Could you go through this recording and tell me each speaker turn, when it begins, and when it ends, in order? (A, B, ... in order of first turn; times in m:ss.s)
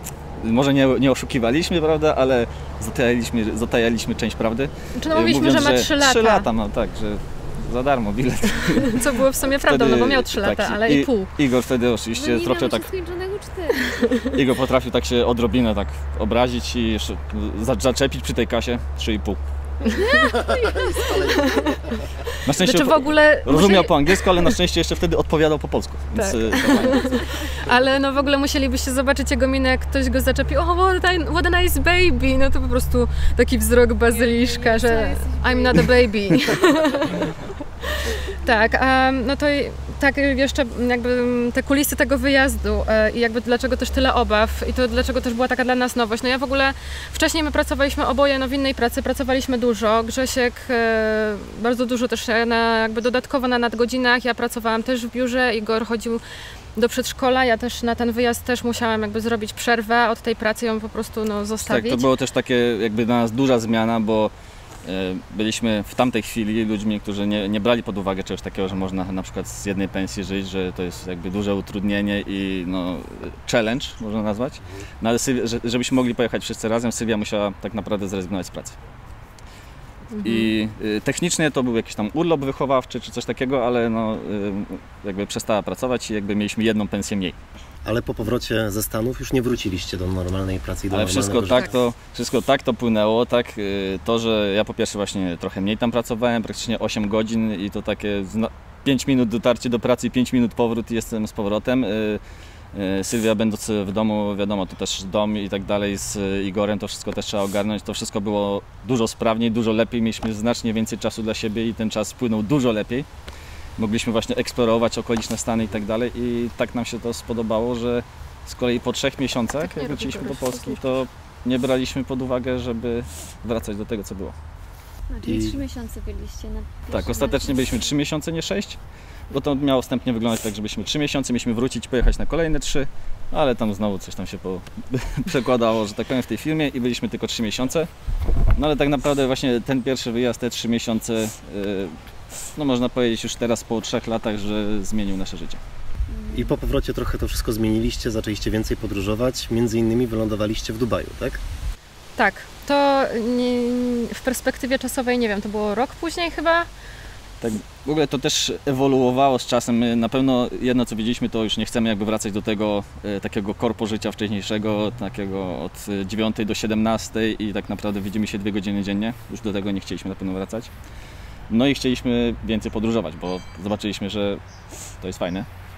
0:00.4-0:12.9 A
0:05.0-0:06.5 B
0:08.9-0:11.3 B
0:12.1-0:14.3 C
0:14.3-0:19.4 A
0:19.8-0:21.8 B
0:20.0-0:21.6 C
0:21.0-0:21.9 D
0:22.4-0:27.0 A
0:22.5-0:24.5 B
0:26.2-0:37.3 B
0:34.1-0:36.1 C
0:38.4-0:56.2 B
0:56.8-1:02.1 B
1:01.6-1:04.3 A
1:04.8-1:18.8 A
1:20.2-1:20.5 B
1:20.2-1:27.4 A
1:27.8-1:31.8 D
1:30.9-1:42.2 A
1:42.7-1:53.1 A
1:53.8-2:04.4 A
1:59.6-2:00.8 B
2:05.1-2:07.9 C
2:05.2-2:05.6 D
2:06.9-2:08.8 A
2:09.3-2:17.9 A
2:18.6-2:21.9 A
2:22.6-2:25.6 A
2:26.1-2:26.5 C
2:26.3-2:31.4 D
2:32.2-2:36.7 B
2:37.4-2:50.7 A
2:51.5-2:54.4 A
2:55.0-2:55.5 A